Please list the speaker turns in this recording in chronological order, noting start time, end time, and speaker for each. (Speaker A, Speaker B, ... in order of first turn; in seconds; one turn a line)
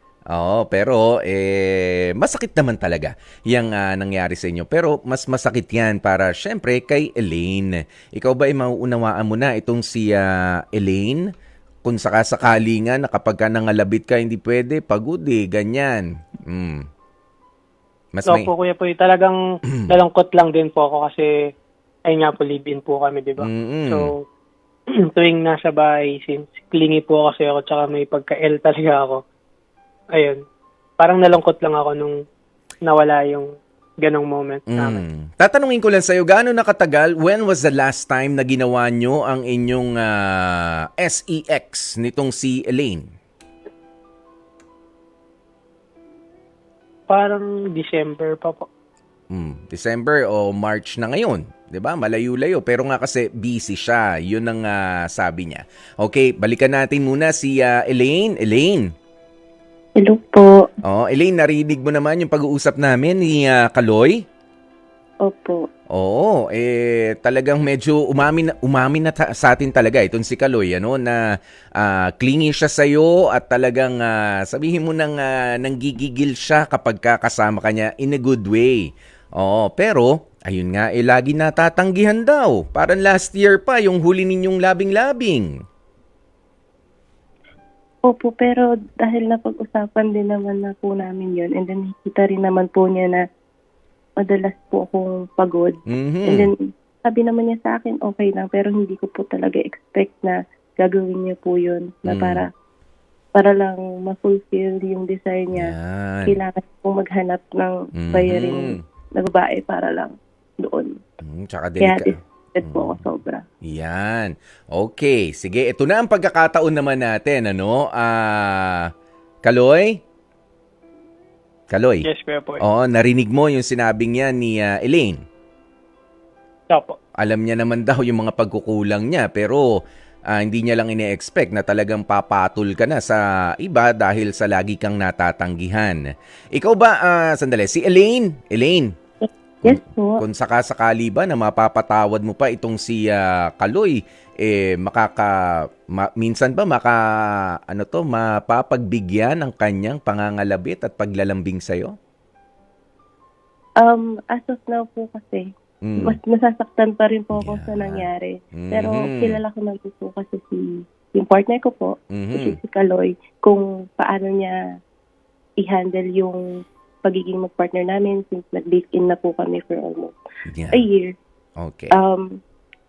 Speaker A: 0.3-11.2
Speaker A: 11.8-16.9
Speaker A: 18.1-18.5
Speaker B: 18.3-21.3
Speaker B: 22.1-24.2
Speaker A: 23.4-24.1
Speaker B: 25.1-29.2
Speaker B: 30.1-30.4
Speaker B: 31.0-32.2
Speaker B: 32.9-33.5
Speaker B: 34.0-35.0
Speaker A: 34.7-43.1
Speaker B: 47.1-48.7
Speaker A: 49.3-58.9
Speaker C: 60.0-60.5
Speaker A: 60.9-64.2
Speaker C: 65.3-65.6
Speaker A: 66.0-71.2
Speaker A: 71.8-85.5
Speaker C: 88.1-93.2
Speaker C: 94.2-102.5
Speaker A: 95.9-96.5
Speaker A: 102.1-102.4
Speaker C: 103.3-105.7
Speaker A: 105.5-106.4
Speaker C: 106.3-110.9
Speaker A: 108.0-108.8
Speaker A: 111.2-113.0
Speaker C: 111.8-113.4
Speaker A: 113.7-118.9
Speaker A: 119.5-120.0
Speaker A: 121.7-122.1
Speaker B: 122.0-122.6
Speaker A: 122.6-125.2
Speaker B: 126.7-127.0
Speaker A: 127.2-129.7
Speaker A: 130.3-136.0
Speaker A: 136.5-138.9
Speaker C: 139.2-140.2
Speaker A: 139.7-151.9
Speaker C: 153.8-155.5
Speaker A: 155.8-156.2
Speaker C: 156.0-164.6
Speaker A: 157.4-159.4
Speaker A: 162.1-162.6
Speaker C: 165.6-166.4
Speaker C: 167.0-170.2
Speaker A: 170.5-170.8
Speaker C: 170.7-171.1
Speaker A: 171.6-172.0
Speaker C: 171.9-172.4